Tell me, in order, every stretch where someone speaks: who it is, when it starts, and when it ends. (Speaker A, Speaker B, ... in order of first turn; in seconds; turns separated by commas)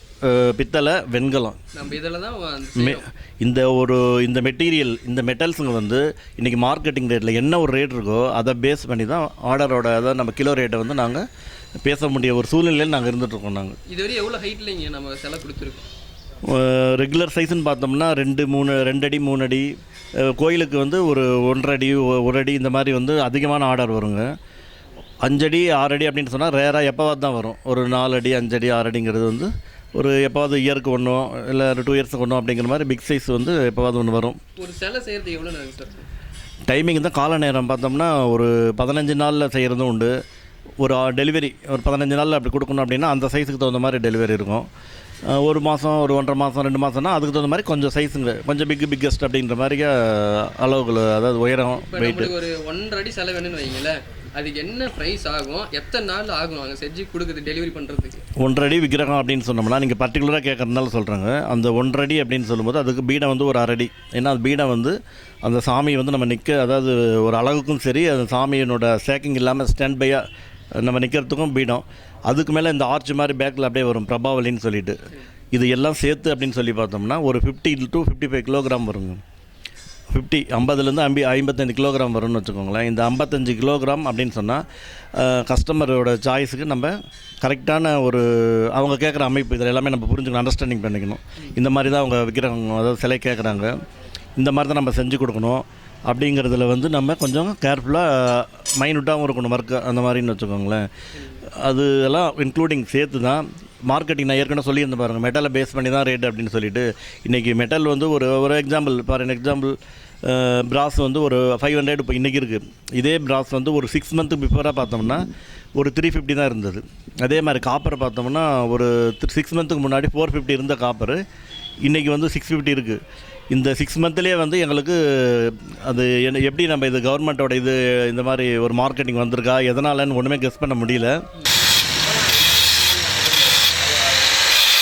Speaker A: 0.2-1.6, Speaker B: 1.7-3.1, Speaker A: 2.7-11.2, Speaker A: 11.8-13.8, Speaker B: 13.9-15.8, Speaker A: 16.4-24.2, Speaker A: 25.2-34.4, Speaker B: 34.5-36.1, Speaker A: 36.6-40.1, Speaker A: 40.8-44.7, Speaker A: 45.3-52.3, Speaker B: 51.8-58.2, Speaker A: 58.4-70.2, Speaker A: 70.8-75.0, Speaker A: 75.5-79.2, Speaker A: 80.1-84.6, Speaker A: 85.1-93.7, Speaker A: 94.4-100.8, Speaker A: 101.4-115.2, Speaker A: 115.7-121.2, Speaker A: 121.8-131.2, Speaker B: 132.0-134.5